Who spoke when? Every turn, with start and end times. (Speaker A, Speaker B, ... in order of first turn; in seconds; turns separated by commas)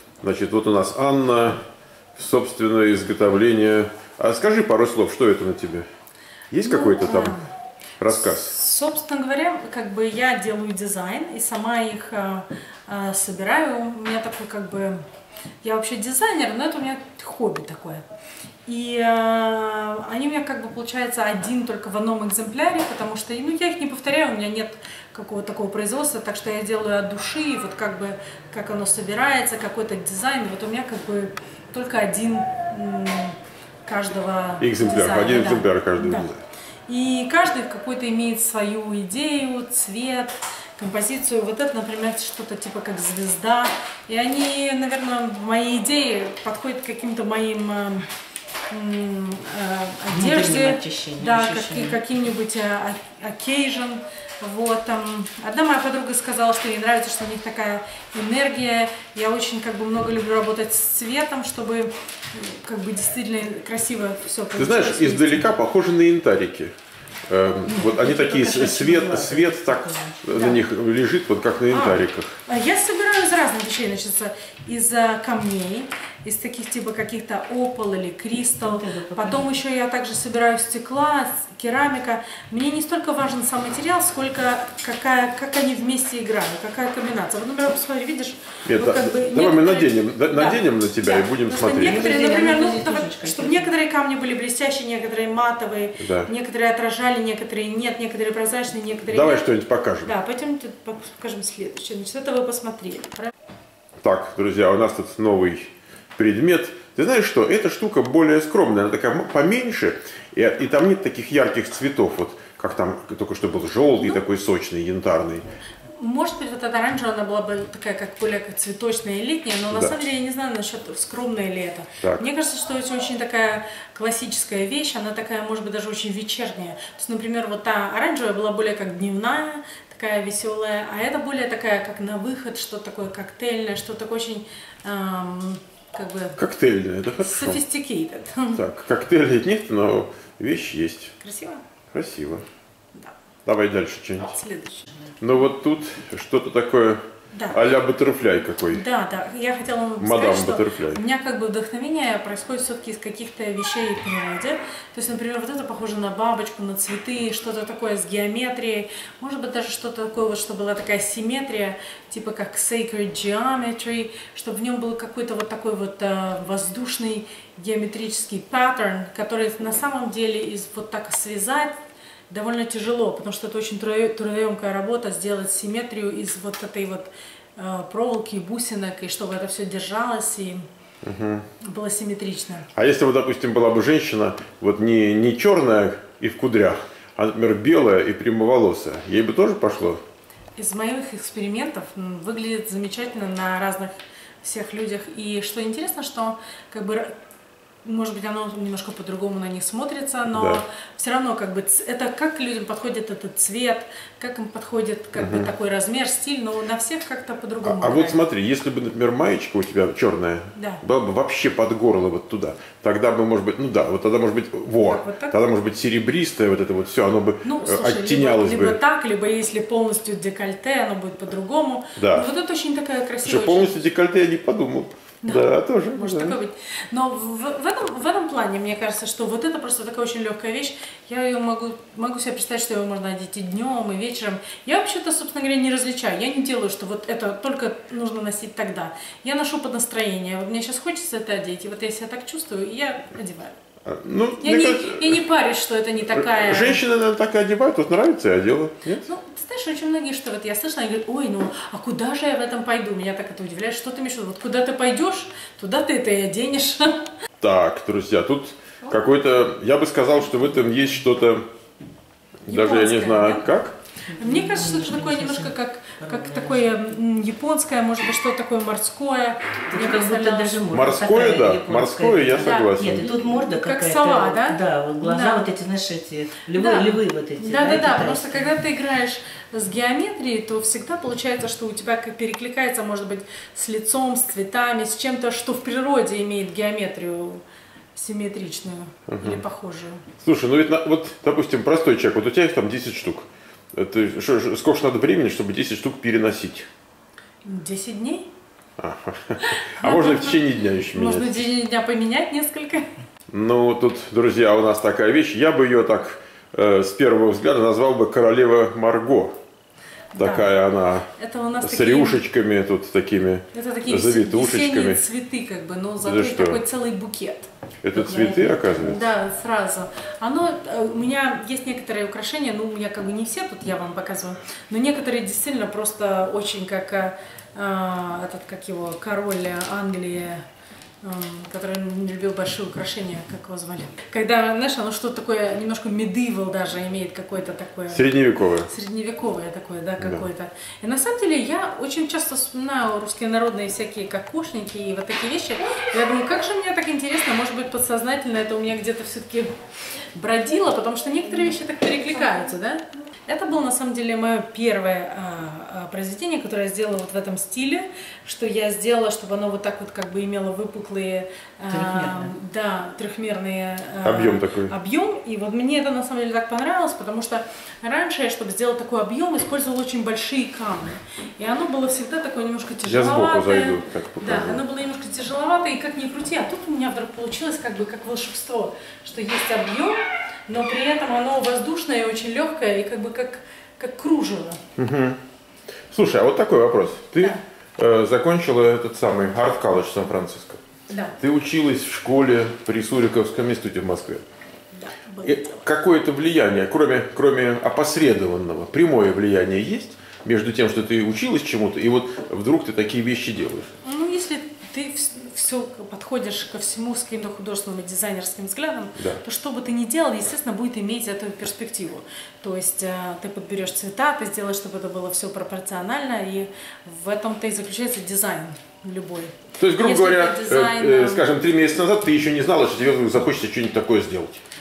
Speaker A: 0.2-1.6, Speaker A: 2.2-5.9, Speaker A: 6.5-7.4, Speaker B: 6.6-7.5, Speaker A: 8.0-8.5, Speaker B: 8.1-15.0, Speaker B: 15.6-18.1, Speaker B: 18.7-36.3, Speaker A: 34.6-36.4, Speaker B: 36.9-48.1, Speaker B: 48.7-65.5, Speaker C: 50.1-52.0, Speaker A: 64.6-66.7, Speaker A: 67.3-72.4, Speaker C: 67.7-70.2, Speaker B: 70.3-70.6, Speaker B: 71.7-99.5, Speaker C: 78.6-79.5, Speaker A: 88.7-92.1, Speaker C: 91.7-93.7, Speaker A: 96.0-96.3, Speaker A: 99.1-100.1, Speaker B: 100.0-103.3, Speaker A: 104.0-115.4, Speaker B: 116.0-136.4, Speaker A: 119.7-120.0, Speaker A: 136.4-137.6, Speaker B: 137.2-138.6, Speaker A: 138.5-141.1, Speaker B: 141.2-141.6, Speaker A: 141.9-142.5, Speaker A: 143.5-144.4, Speaker B: 144.2-145.0, Speaker A: 145.2-147.0, Speaker B: 147.3-147.6, Speaker A: 147.5-148.8, Speaker B: 148.7-171.8, Speaker A: 150.0-151.0, Speaker B: 172.3-180.7, Speaker A: 181.0-181.5, Speaker B: 181.6-182.7, Speaker A: 182.8-190.0, Speaker B: 190.6-197.1, Speaker B: 197.8-208.2, Speaker A: 200.3-200.6, Speaker A: 205.2-205.5, Speaker A: 207.6-218.8, Speaker B: 210.6-210.8, Speaker B: 214.8-215.4, Speaker B: 217.4-223.7, Speaker A: 222.0-222.3, Speaker A: 223.2-226.4, Speaker B: 225.2-243.6, Speaker A: 243.9-245.2, Speaker B: 244.4-246.8, Speaker A: 246.1-249.1, Speaker B: 249.1-257.1, Speaker A: 257.4-261.5, Speaker A: 262.5-263.8, Speaker B: 262.5-263.6, Speaker C: 264.1-266.7, Speaker B: 264.2-270.6, Speaker C: 269.7-278.5, Speaker A: 270.7-273.1, Speaker B: 272.4-275.4, Speaker B: 276.5-287.4, Speaker B: 287.9-290.1, Speaker A: 289.1-289.4, Speaker A: 290.2-296.7, Speaker B: 297.4-298.3, Speaker A: 298.8-301.4, Speaker B: 299.4-302.9, Speaker A: 303.3-309.3, Speaker B: 310.1-310.5, Speaker A: 310.2-311.1, Speaker B: 311.2-312.2, Speaker A: 311.6-315.0, Speaker B: 313.5-330.4, Speaker A: 316.0-316.6, Speaker A: 317.8-319.1, Speaker B: 331.0-349.5, Speaker A: 337.9-338.7, Speaker B: 350.1-384.6, Speaker C: 361.7-362.3, Speaker A: 364.0-364.7, Speaker A: 372.9-374.6, Speaker A: 384.8-385.2, Speaker A: 385.9-394.2, Speaker B: 390.9-391.1, Speaker B: 394.7-395.6, Speaker A: 395.2-403.7, Speaker B: 403.8-421.3, Speaker A: 409.0-409.2, Speaker A: 419.6-424.4